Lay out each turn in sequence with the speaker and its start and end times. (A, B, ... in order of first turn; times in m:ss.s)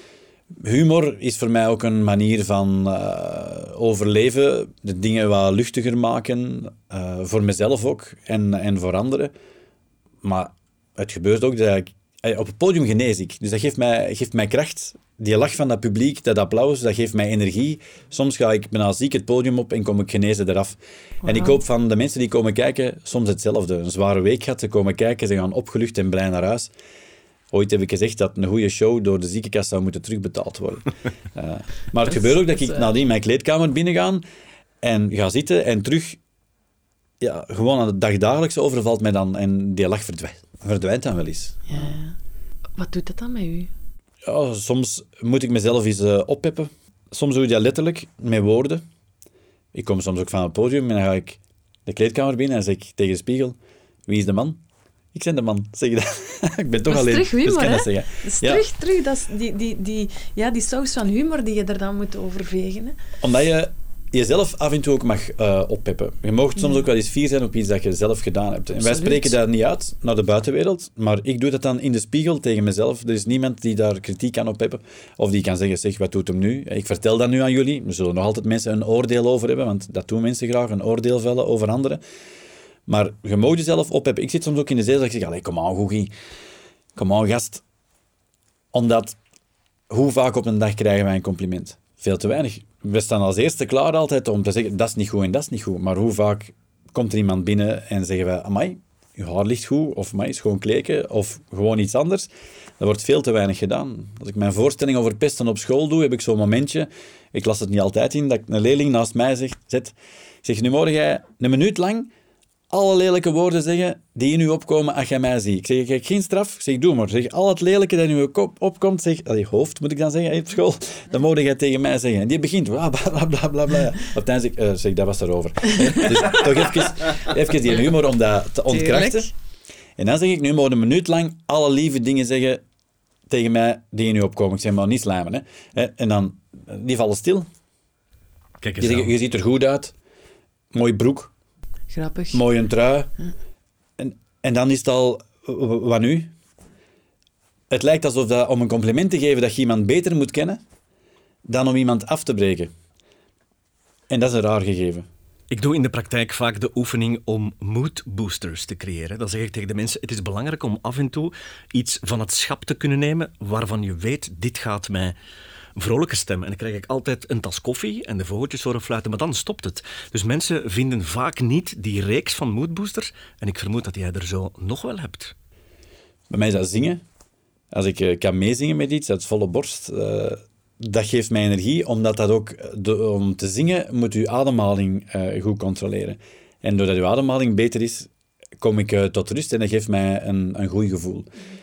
0:00.5-0:09.3 A
0:10.2-0:26.7 A
0:27.5-0:34.2 A
0:32.1-0:32.9 B
0:34.8-0:36.2 A
0:37.2-0:41.7 A
0:41.7-0:42.2 B
0:42.8-0:43.7 B
0:44.2-0:48.8 A
0:49.7-0:54.6 A
0:55.1-0:58.6 A
0:56.9-1:03.0 B
1:03.2-1:22.0 A
1:08.8-1:09.4 B
1:22.9-1:26.1 A
1:27.0-1:27.6 A
1:28.7-1:29.2 A
1:29.9-1:52.1 A
1:52.7-2:09.3 A
2:08.7-2:09.3 B
2:10.0-2:12.6 A
2:13.3-2:17.5 A
2:18.6-2:19.1 C
2:18.8-2:19.9 A
2:20.7-2:21.3 A
2:21.9-2:22.4 B
2:22.3-2:23.1 A
2:24.0-2:26.3 A
2:27.7-2:30.6 A
2:31.5-2:32.7 A
2:34.1-2:35.1 A
2:35.5-2:45.2 C
2:45.8-2:55.3 C
2:56.3-2:57.0 A
2:57.7-3:11.3 A